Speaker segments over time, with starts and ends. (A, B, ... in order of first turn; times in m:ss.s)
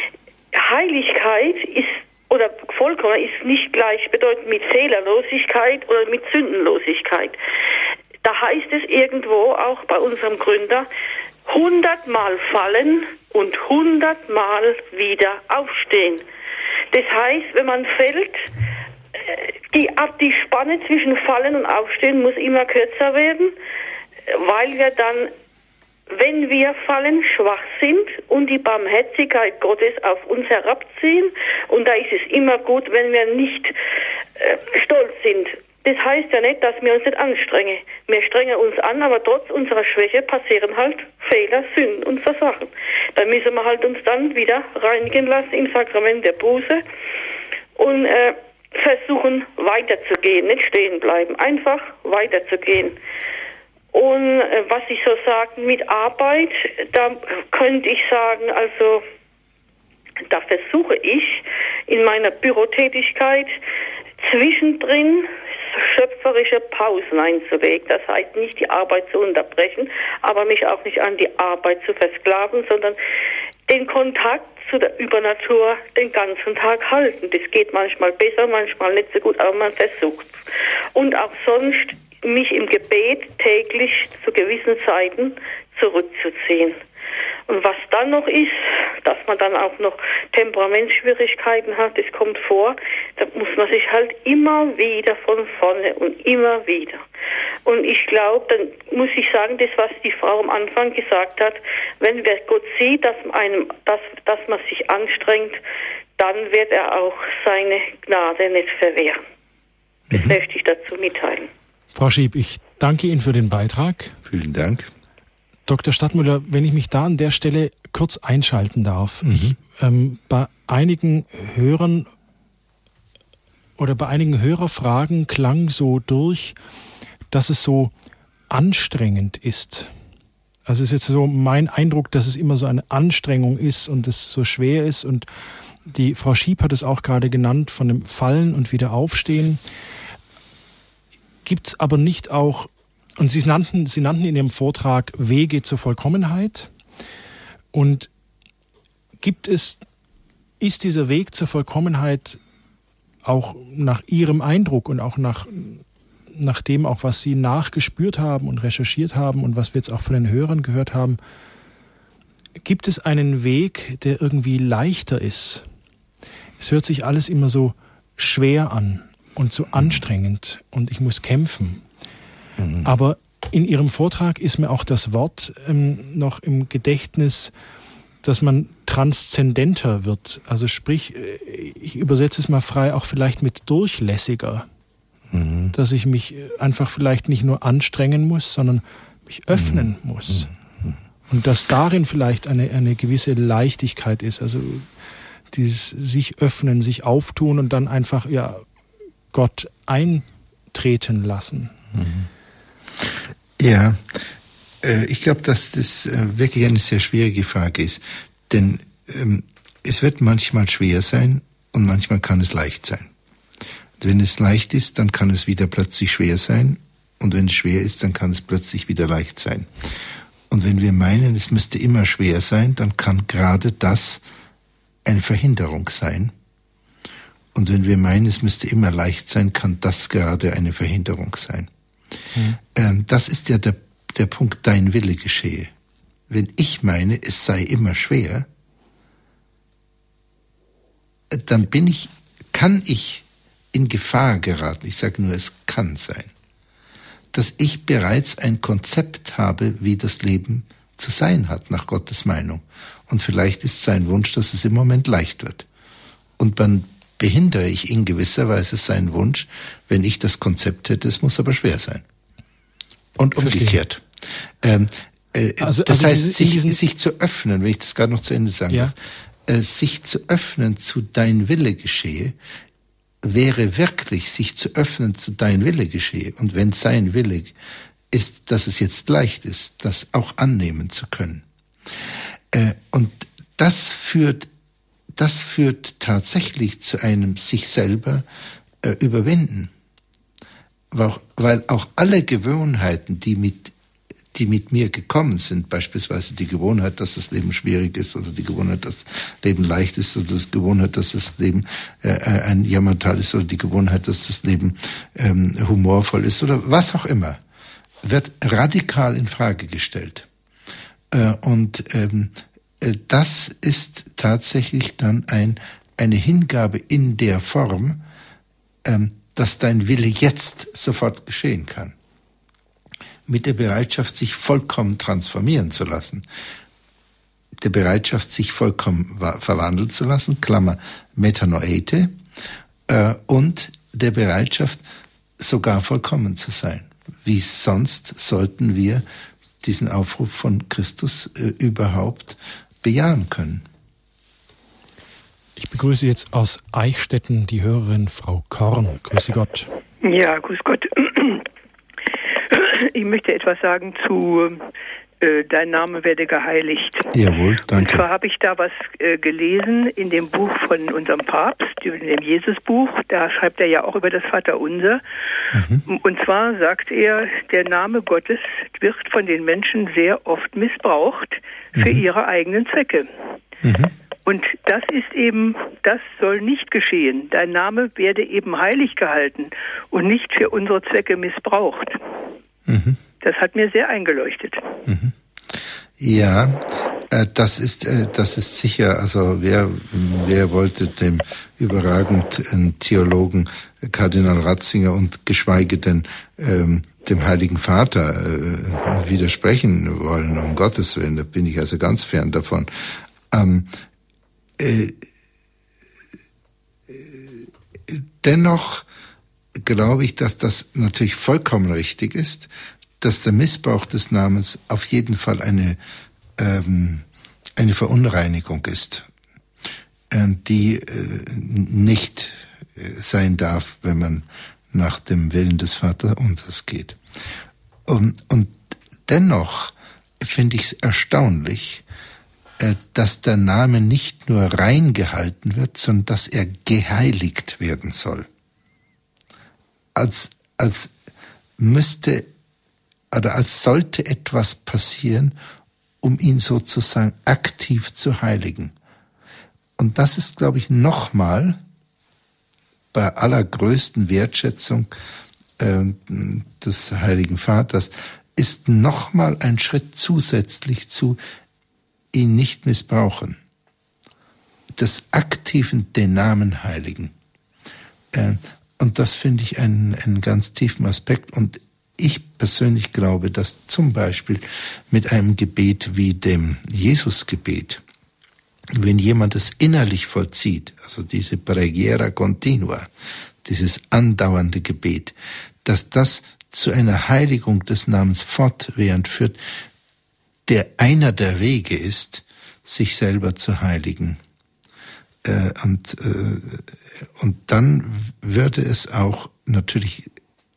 0:00.5-0:07.4 A
0:08.2-0:10.9 A
0:11.5-0:16.2 A
0:16.9-0:18.5 A
0:19.3-0:23.5 A
0:24.3-0:25.3 A
0:26.1-0:33.7 A
0:34.4-0:46.8 A
0:47.8-0:53.0 A
0:53.9-0:59.0 A
1:00.3-1:03.6 A
1:04.2-1:13.0 A
1:13.7-1:20.3 A
1:20.9-1:26.8 A
1:27.5-1:37.0 A
1:37.6-1:45.6 A
1:46.2-1:49.2 A
1:50.1-1:50.4 B
1:50.1-1:51.5 A
1:51.9-1:54.1 C
1:54.2-1:54.9 B
1:55.7-2:02.1 C
1:59.2-1:59.6 B
2:03.8-2:06.6 C
2:07.3-2:07.9 C
2:08.5-2:09.9 C
2:10.6-2:15.2 C
2:15.9-2:19.6 C
2:21.4-2:26.7 C
2:27.7-2:28.1 C
2:29.2-2:29.8 C
2:30.6-2:32.4 C
2:33.2-2:35.8 C
2:36.3-2:41.2 C
2:42.6-2:45.6 C
2:46.6-2:51.8 C
2:52.6-2:52.9 B
2:52.8-2:57.5 C
2:58.2-3:04.7 C
3:05.3-3:05.7 B
3:05.7-3:10.5 C
3:09.5-3:11.0 B
3:11.3-3:14.8 C
3:15.5-3:18.6 C
3:19.3-3:21.7 C
3:21.9-3:22.3 B
3:23.0-3:24.3 B
3:24.8-3:33.1 B
3:34.0-3:39.7 B
3:40.5-3:44.2 B
3:45.0-3:46.3 B
3:47.5-3:51.7 B
3:52.7-3:55.7 B
3:56.3-3:58.5 B
4:01.3-4:06.3 B
4:07.3-4:15.6 B
4:16.4-4:22.0 B
4:23.2-4:24.0 B
4:23.4-4:23.8 C
4:24.6-4:28.9 B
4:25.6-4:26.8 C
4:29.4-4:32.4 B
4:33.2-4:37.6 B
4:38.1-4:41.4 B
4:42.5-4:44.5 B
4:45.1-4:48.2 B
4:48.8-4:49.7 B
4:50.9-4:53.7 B
4:54.3-5:07.4 B
5:08.0-5:10.3 B
5:11.1-5:18.0 B
5:18.8-5:21.9 B
5:23.3-5:26.2 B
5:27.6-5:32.2 B
5:32.9-5:34.8 B
5:35.4-5:39.0 B
5:39.6-5:43.6 B
5:45.6-5:49.7 C
5:50.0-5:51.4 D
5:52.5-5:54.7 D
5:55.2-5:57.2 D
5:57.1-5:58.0 B
5:57.7-6:05.0 D
6:05.5-6:05.8 B
6:05.9-6:13.1 D
6:11.7-6:12.0 B
6:13.6-6:13.9 B
6:14.2-6:22.0 D
6:22.7-6:23.0 B
6:23.2-6:24.8 D
6:24.8-6:43.7 B
6:44.6-6:45.0 B
6:46.9-6:48.8 B
6:49.6-6:55.8 B
6:56.4-6:57.0 B
6:57.6-6:59.1 B
7:00.1-7:07.0 B
7:07.8-7:11.8 B
7:12.6-7:18.3 B
7:19.9-7:20.9 B
7:21.6-7:22.3 B
7:23.1-7:25.4 B
7:26.0-7:28.7 B
7:29.8-7:31.6 B
7:32.9-7:34.9 B
7:35.6-7:41.2 B
7:42.1-7:43.4 B
7:44.7-7:47.1 B
7:48.1-7:57.8 B
7:58.7-8:02.9 B
8:03.4-8:09.4 B
8:10.4-8:14.2 B
8:15.2-8:20.1 B